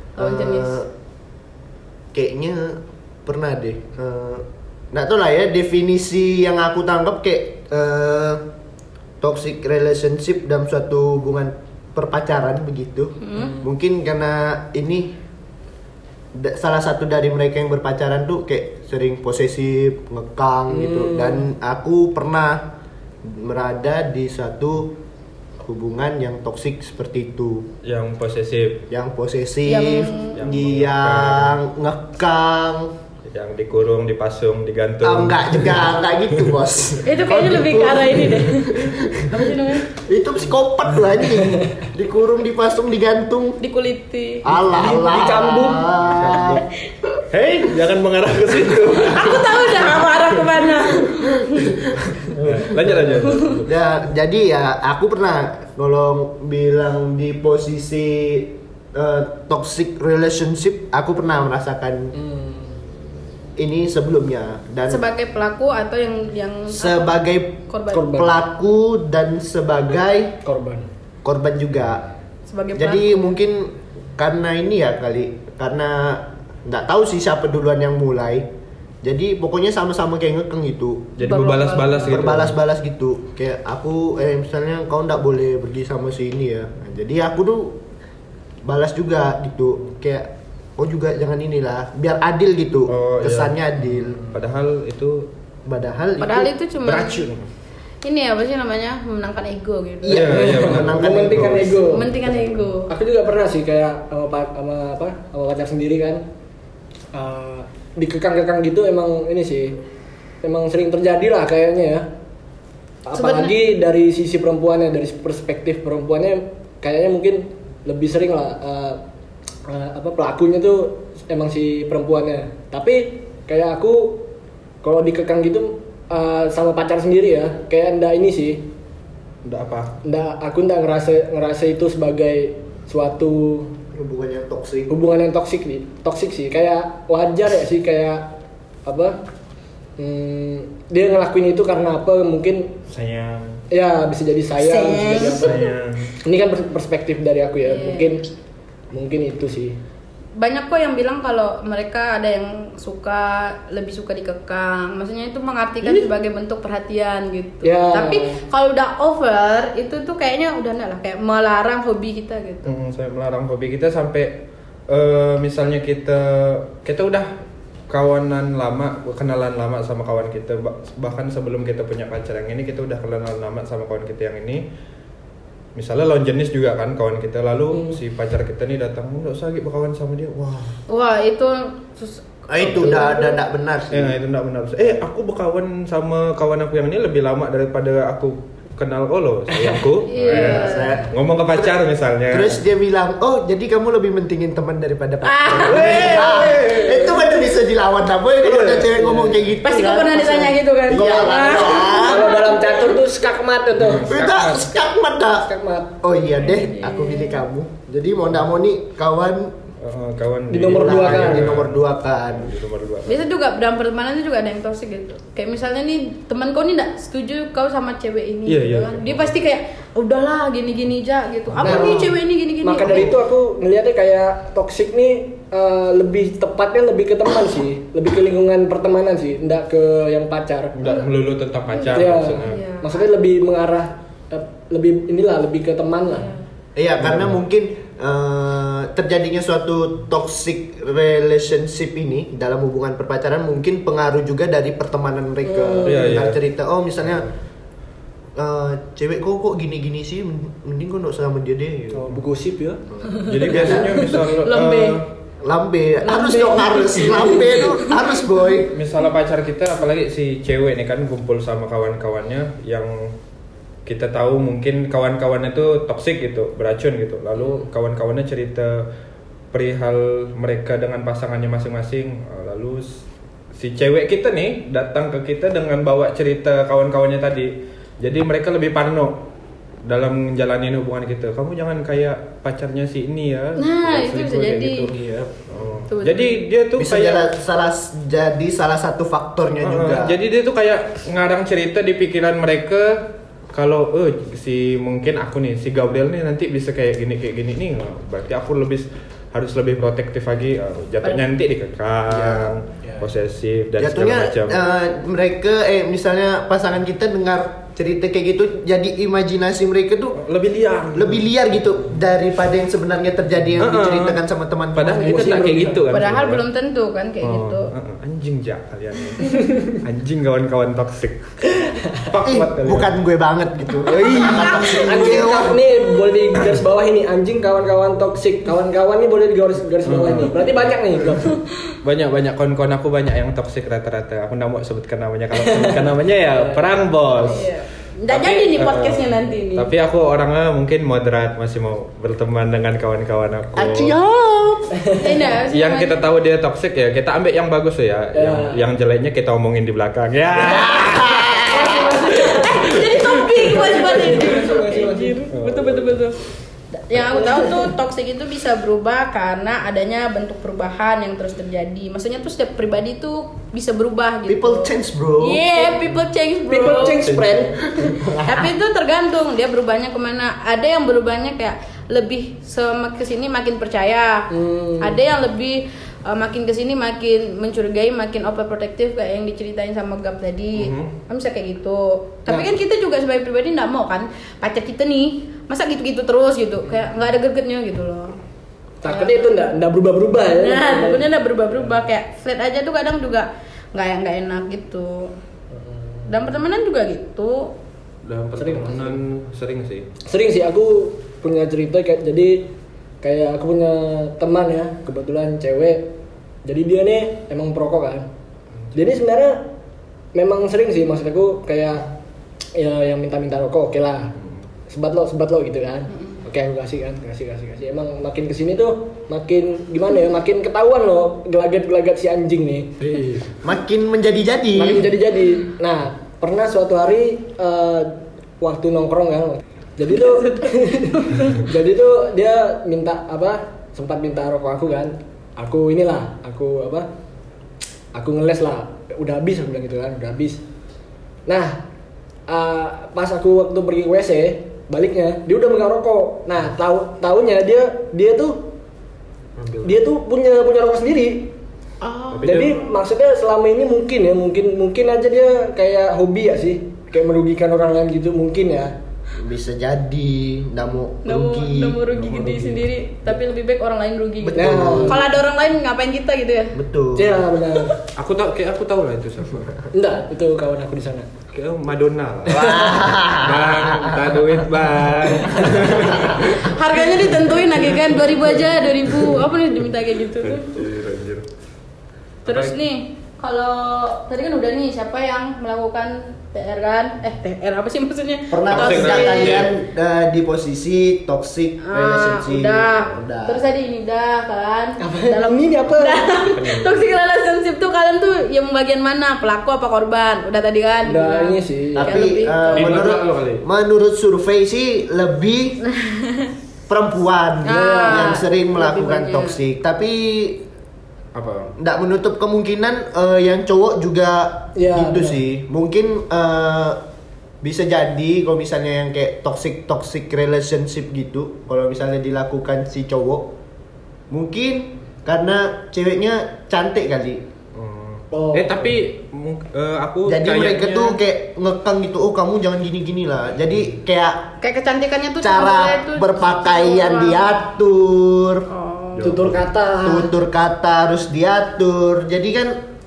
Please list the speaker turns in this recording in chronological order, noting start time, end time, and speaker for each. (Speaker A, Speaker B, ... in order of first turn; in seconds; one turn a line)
Speaker A: 0.1-0.8
Speaker B: 0.2-0.9
Speaker B: 2.1-8.4
Speaker B: 9.2-15.2
Speaker A: 13.2-13.5
Speaker C: 13.3-13.7
Speaker B: 16.3-22.7
Speaker C: 20.7-21.4
Speaker B: 23.2-24.9
Speaker B: 25.6-27.7
Speaker D: 27.8-28.9
Speaker B: 28.9-32.9
Speaker A: 29.7-30.4
Speaker D: 30.3-31.5
Speaker D: 33.3-35.8
Speaker B: 35.0-43.6
Speaker A: 37.0-39.9
Speaker A: 43.6-44.4
Speaker B: 44.4-46.6
Speaker C: 44.6-45.9
Speaker D: 46.0-46.6
Speaker D: 47.3-50.2
Speaker A: 49.1-51.7
Speaker D: 52.0-53.8
Speaker C: 52.8-53.4
Speaker A: 53.2-53.6
Speaker B: 53.6-62.1
Speaker C: 62.1-62.8
Speaker B: 63.6-65.0
Speaker A: 64.9-68.1
Speaker B: 66.7-70.4
Speaker C: 67.9-68.3
Speaker C: 70.4-70.9
Speaker B: 71.2-72.0
Speaker A: 72.5-73.3
Speaker B: 72.8-78.5
Speaker B: 79.0-81.2
Speaker D: 81.2-82.5
Speaker A: 81.2-82.2
Speaker B: 82.0-87.8
Speaker B: 88.6-94.2
Speaker D: 92.9-95.3
Speaker B: 95.7-96.5
Speaker A: 96.2-97.2
Speaker D: 96.8-97.4
Speaker A: 98.0-100.2
Speaker B: 100.0-102.0
Speaker D: 100.1-101.8
Speaker C: 100.3-102.2
Speaker A: 101.9-102.9
Speaker C: 102.9-106.2
Speaker C: 107.1-109.8
Speaker C: 110.4-112.1
Speaker C: 113.0-119.0
Speaker A: 113.1-113.5
Speaker C: 119.6-124.3
Speaker C: 124.8-128.7
Speaker D: 129.4-129.9
Speaker C: 130.0-133.7
Speaker B: 133.9-134.9
Speaker C: 134.9-139.2
Speaker C: 140.0-142.8
Speaker D: 142.9-143.6
Speaker C: 143.7-145.7
Speaker A: 144.6-145.6
Speaker D: 145.4-146.1
Speaker C: 146.2-148.3
Speaker A: 147.6-148.2
Speaker C: 148.9-149.8
Speaker A: 150.3-162.7
Speaker C: 155.8-156.1
Speaker C: 157.6-158.4
Speaker D: 162.6-167.3
Speaker D: 167.9-174.6
Speaker D: 175.7-180.8
Speaker C: 177.7-178.0
Speaker A: 180.9-183.4
Speaker B: 182.5-184.2
Speaker D: 183.9-192.6
Speaker C: 189.5-189.8
Speaker A: 190.1-191.0
Speaker B: 190.2-202.5
Speaker A: 195.2-196.4
Speaker D: 195.6-197.2
Speaker D: 198.4-198.9
Speaker C: 198.9-199.4
Speaker A: 199.6-202.8
Speaker C: 201.9-204.1
Speaker D: 203.7-204.7
Speaker B: 204.1-205.5
Speaker C: 205.3-206.0
Speaker B: 206.0-209.5
Speaker A: 206.4-207.4
Speaker D: 209.8-213.2
Speaker C: 210.5-211.5
Speaker B: 210.7-212.5
Speaker A: 213.1-223.1
Speaker D: 218.4-219.3
Speaker C: 221.6-230.8
Speaker B: 221.6-222.0
Speaker D: 222.8-223.1
Speaker D: 230.8-232.6
Speaker A: 231.7-233.0
Speaker C: 231.9-236.3
Speaker A: 236.1-236.4
Speaker B: 236.8-247.3
Speaker D: 237.0-237.4
Speaker C: 245.4-246.3
Speaker D: 245.8-246.4
Speaker B: 248.3-252.1
Speaker C: 251.9-253.8
Speaker A: 253.1-255.0
Speaker D: 253.2-255.1
Speaker B: 255.4-258.7
Speaker A: 256.0-258.0
Speaker D: 258.7-263.1
Speaker D: 263.9-268.9
Speaker D: 269.5-279.3
Speaker D: 279.8-287.3
Speaker A: 283.6-284.9
Speaker B: 284.9-285.3
Speaker A: 285.9-286.4
Speaker B: 286.8-290.2
Speaker D: 289.6-293.0
Speaker D: 293.5-304.6
Speaker B: 302.1-302.5
Speaker B: 303.8-310.2
Speaker D: 310.1-311.3
Speaker B: 310.9-315.4
Speaker D: 313.6-314.2
Speaker D: 314.7-316.4
Speaker C: 314.9-315.9
Speaker A: 315.9-317.7
Speaker D: 317.2-323.0
Speaker B: 322.2-325.6
Speaker A: 324.1-325.5
Speaker C: 324.2-331.4
Speaker D: 329.8-331.0
Speaker D: 331.8-337.5
Speaker C: 335.3-337.4
Speaker A: 337.2-339.7
Speaker D: 338.1-343.9
Speaker B: 343.6-344.8
Speaker C: 344.8-345.2
Speaker A: 345.0-346.0
Speaker D: 345.5-351.4
Speaker C: 348.1-348.6
Speaker B: 350.4-351.9
Speaker C: 351.3-355.2
Speaker A: 351.4-356.2
Speaker D: 355.3-356.1
Speaker A: 356.7-367.0
Speaker C: 356.9-357.7
Speaker B: 364.3-365.5
Speaker C: 366.5-368.1
Speaker D: 366.7-367.5
Speaker B: 367.7-368.5
Speaker A: 368.2-388.1
Speaker C: 374.3-375.0
Speaker D: 380.6-380.9
Speaker C: 382.3-382.5
Speaker C: 388.8-391.1
Speaker A: 388.9-389.5
Speaker A: 390.3-395.1
Speaker C: 395.5-396.2
Speaker A: 396.1-397.5
Speaker D: 398.0-399.9
Speaker C: 398.4-399.0
Speaker C: 400.1-408.1
Speaker C: 408.7-409.5
Speaker C: 410.1-412.0
Speaker C: 412.5-414.1
Speaker C: 414.7-423.1
Speaker D: 422.9-423.2
Speaker B: 423.4-424.9
Speaker C: 424.5-436.9
Speaker A: 430.3-431.3
Speaker C: 437.9-440.4
Speaker C: 441.3-441.6
Speaker C: 442.3-448.5
Speaker D: 449.4-449.8
Speaker C: 449.6-451.3
Speaker A: 451.8-452.2
Speaker D: 452.1-452.6
Speaker C: 452.2-458.7
Speaker B: 459.1-461.8
Speaker A: 461.0-466.6
Speaker D: 461.9-462.7
Speaker B: 464.2-465.0
Speaker C: 464.4-465.0
Speaker B: 466.5-467.2
Speaker C: 466.9-467.7
Speaker D: 467.9-469.6
Speaker C: 469.7-471.1
Speaker D: 471.3-477.1
Speaker B: 472.3-474.1
Speaker C: 475.2-475.9
Speaker B: 475.9-476.2
Speaker A: 476.2-480.6
Speaker D: 480.2-481.2
Speaker D: 482.2-482.6
Speaker A: 482.2-489.4
Speaker B: 488.3-493.4
Speaker D: 488.5-489.5
Speaker A: 491.6-502.8
Speaker C: 494.8-496.1
Speaker D: 496.1-496.8
Speaker C: 500.8-502.0
Speaker B: 501.7-505.6
Speaker D: 502.5-503.4
Speaker A: 505.6-506.3
Speaker B: 506.7-510.4
Speaker A: 507.4-509.4
Speaker C: 507.5-508.2
Speaker D: 511.1-511.5
Speaker B: 511.6-516.8
Speaker C: 514.5-515.2
Speaker B: 517.4-523.3
Speaker B: 524.1-527.2
Speaker D: 527.5-531.0
Speaker C: 528.1-528.7
Speaker B: 530.0-534.3
Speaker A: 534.4-537.2
Speaker B: 535.2-538.5
Speaker A: 538.5-539.2
Speaker D: 539.0-539.4
Speaker C: 539.0-540.1
Speaker B: 539.8-542.6